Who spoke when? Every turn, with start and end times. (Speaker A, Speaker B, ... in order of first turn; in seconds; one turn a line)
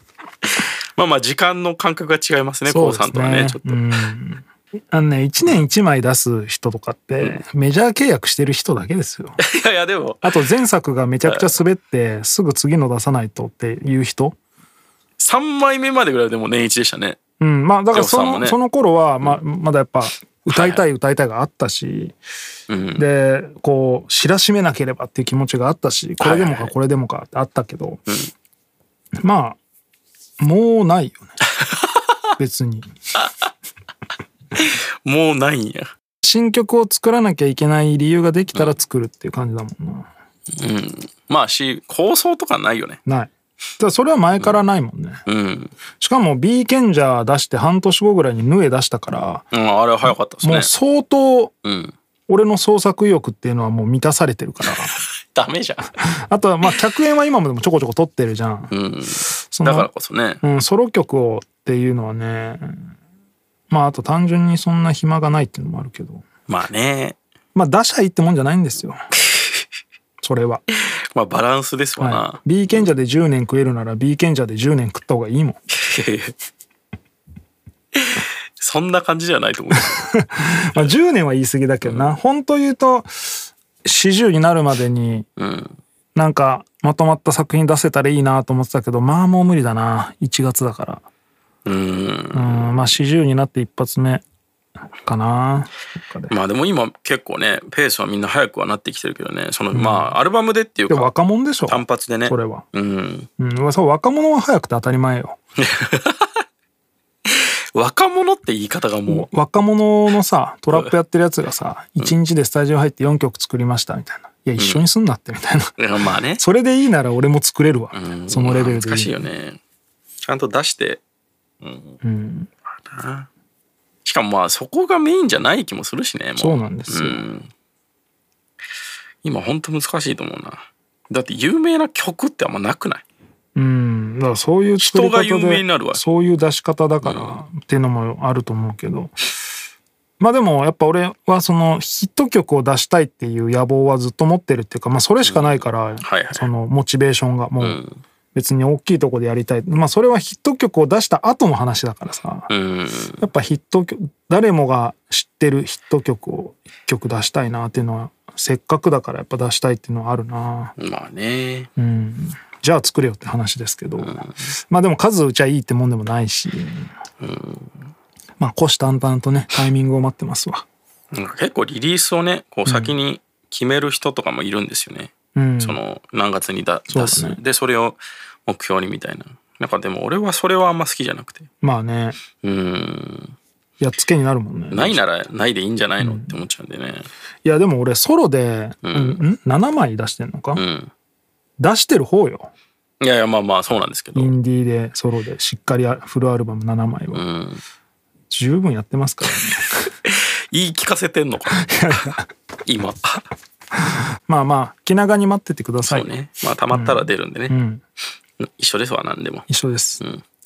Speaker A: 1.0-3.8
Speaker B: 2.7-9.4
Speaker A: 9.4-10.3
Speaker B: 10.2-14.4
Speaker A: 11.2-11.6
Speaker A: 15.2-17.2
Speaker B: 17.4-22.2
Speaker A: 17.9-18.6
Speaker A: 20.5-20.8
Speaker A: 22.7-23.1
Speaker B: 23.0-28.0
Speaker A: 26.2-26.7
Speaker B: 29.2-29.6
Speaker B: 30.4-31.3
Speaker A: 31.6-32.0
Speaker B: 32.4-32.9
Speaker A: 34.6-35.9
Speaker B: 36.2-40.1
Speaker A: 40.6-43.0
Speaker B: 43.1-45.2
Speaker A: 45.3-45.8
Speaker B: 46.0-49.5
Speaker A: 49.5-50.7
Speaker B: 50.1-51.5
Speaker A: 51.6-52.0
Speaker B: 52.3-54.9
Speaker A: 55.0-55.9
Speaker B: 56.0-58.7
Speaker A: 58.7-60.4
Speaker B: 59.5-59.9
Speaker B: 60.4-62.9
Speaker B: 63.7-66.2
Speaker A: 66.5-67.2
Speaker B: 67.5-69.0
Speaker B: 70.2-70.6
Speaker A: 71.1-72.4
Speaker B: 72.0-75.6
Speaker A: 75.7-76.3
Speaker A: 78.0-80.1
Speaker B: 80.0-85.3
Speaker A: 81.8-82.2
Speaker A: 85.4-85.8
Speaker B: 86.2-91.0
Speaker A: 91.7-92.8
Speaker B: 92.3-94.2
Speaker B: 95.0-96.3
Speaker A: 96.3-101.1
Speaker B: 99.7-100.1
Speaker B: 100.9-102.7
Speaker A: 101.7-103.3
Speaker B: 103.4-105.4
Speaker A: 105.6-106.4
Speaker A: 107.3-109.3
Speaker B: 109.1-115.8
Speaker A: 114.6-114.9
Speaker A: 115.8-116.4
Speaker B: 116.4-119.2
Speaker A: 117.9-119.6
Speaker A: 120.2-121.0
Speaker A: 121.6-122.0
Speaker B: 122.0-122.5
Speaker A: 122.8-123.3
Speaker A: 124.0-127.5
Speaker B: 126.4-127.2
Speaker A: 129.2-133.0
Speaker B: 133.6-139.1
Speaker A: 134.8-136.0
Speaker A: 137.0-137.4
Speaker B: 140.2-147.8
Speaker A: 145.2-146.5
Speaker A: 147.6-148.0
Speaker B: 148.3-152.5
Speaker A: 152.5-153.2
Speaker B: 153.2-160.8
Speaker A: 160.8-161.7
Speaker B: 161.8-166.9
Speaker A: 164.0-164.3
Speaker A: 167.2-167.8
Speaker B: 168.4-170.7
Speaker A: 171.1-181.5
Speaker B: 172.7-173.0
Speaker B: 175.3-175.8
Speaker B: 176.9-177.4
Speaker B: 181.6-182.2
Speaker A: 182.4-183.4
Speaker B: 183.8-185.0
Speaker A: 184.7-187.1
Speaker B: 186.0-186.4
Speaker B: 187.4-190.6
Speaker A: 188.8-189.2
Speaker A: 190.6-190.9
Speaker B: 191.6-192.5
Speaker A: 193.0-194.3
Speaker B: 194.2-197.2
Speaker A: 197.1-197.6
Speaker B: 198.3-199.7
Speaker A: 200.1-203.3
Speaker B: 201.5-202.3
Speaker B: 204.3-206.1
Speaker A: 205.8-207.6
Speaker B: 206.7-207.8
Speaker A: 208.4-209.5
Speaker B: 209.5-210.0